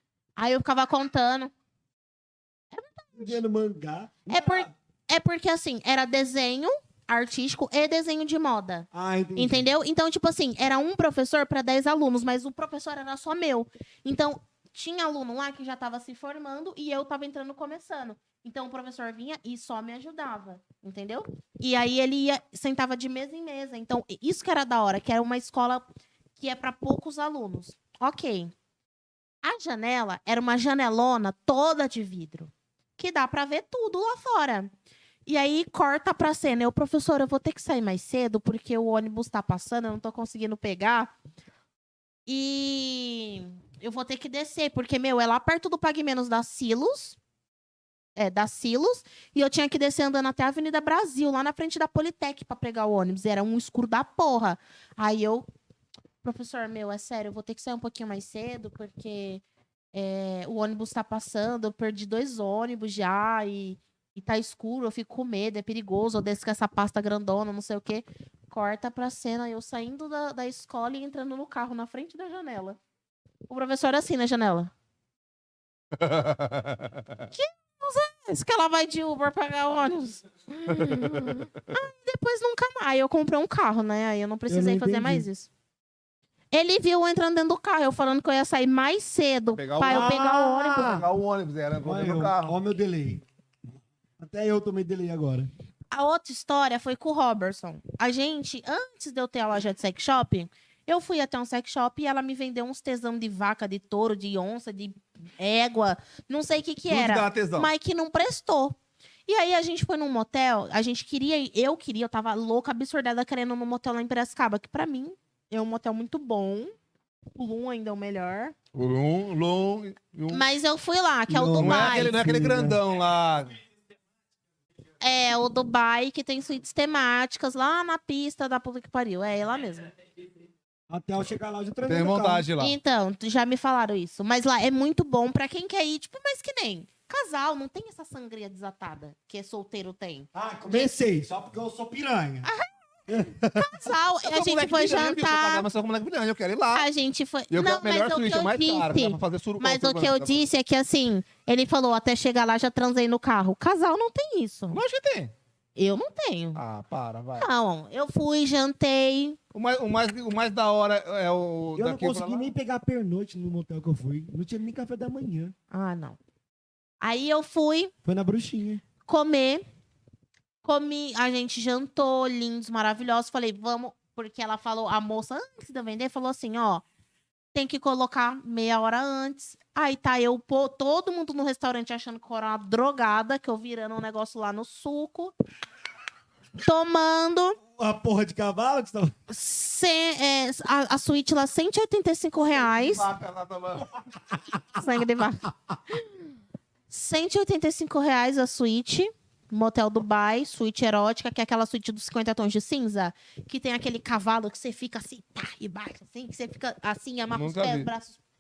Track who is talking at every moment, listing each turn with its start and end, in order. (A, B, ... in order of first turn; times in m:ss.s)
0:00.4-0:01.5 A
0:02.7-0:03.4 A
0:03.2-0:04.7 B
0:04.3-0:25.8 A
0:08.9-0:09.7 B
0:26.4-0:28.5 A
0:29.4-0:34.7 A
0:35.3-0:41.1 A
0:42.3-0:47.2 A
0:48.2-0:55.5 A
0:56.2-0:59.4 A
0:59.9-1:12.8 A
1:13.5-1:14.7 A
1:15.9-1:17.3 C
1:17.3-1:25.5 A
1:20.8-1:21.3 C
1:24.5-1:25.3 B
1:26.5-1:31.0 A
1:29.6-1:32.6 C
1:29.9-1:31.1 B
1:31.8-1:33.2 B
1:34.2-1:35.5 B
1:35.9-1:48.8 A
1:46.9-1:47.7 C
1:49.3-1:56.7 A
1:57.4-1:58.6 A
1:58.7-2:00.4 C
2:00.3-2:02.2 A
2:01.3-2:02.8 B
2:01.6-2:03.6 C
2:05.0-2:09.9 A
2:10.9-2:12.5 B
2:11.9-2:12.8 C
2:12.6-2:20.9 A
2:20.3-2:22.5 B
2:22.4-2:25.6 A
2:23.1-2:23.9 B
2:24.2-2:26.9 C
2:26.7-2:34.8 A
2:27.5-2:30.4 C
2:34.7-2:35.3 C
2:35.8-2:36.6 A
2:36.6-2:37.5 C
2:37.4-2:39.4 A
2:39.5-2:42.5 C
2:41.8-2:45.6 B
2:45.7-2:46.2 A
2:47.0-2:47.9 A
2:48.0-2:48.8 B
2:49.1-2:49.6 A
2:50.6-2:56.8 A
2:57.5-3:05.3 A
3:06.6-3:07.6 A
3:07.8-3:09.1 B
3:09.3-3:13.0 A
3:12.5-3:14.1 C
3:14.8-3:15.4 A
3:16.9-3:28.2 A
3:27.3-3:27.9 C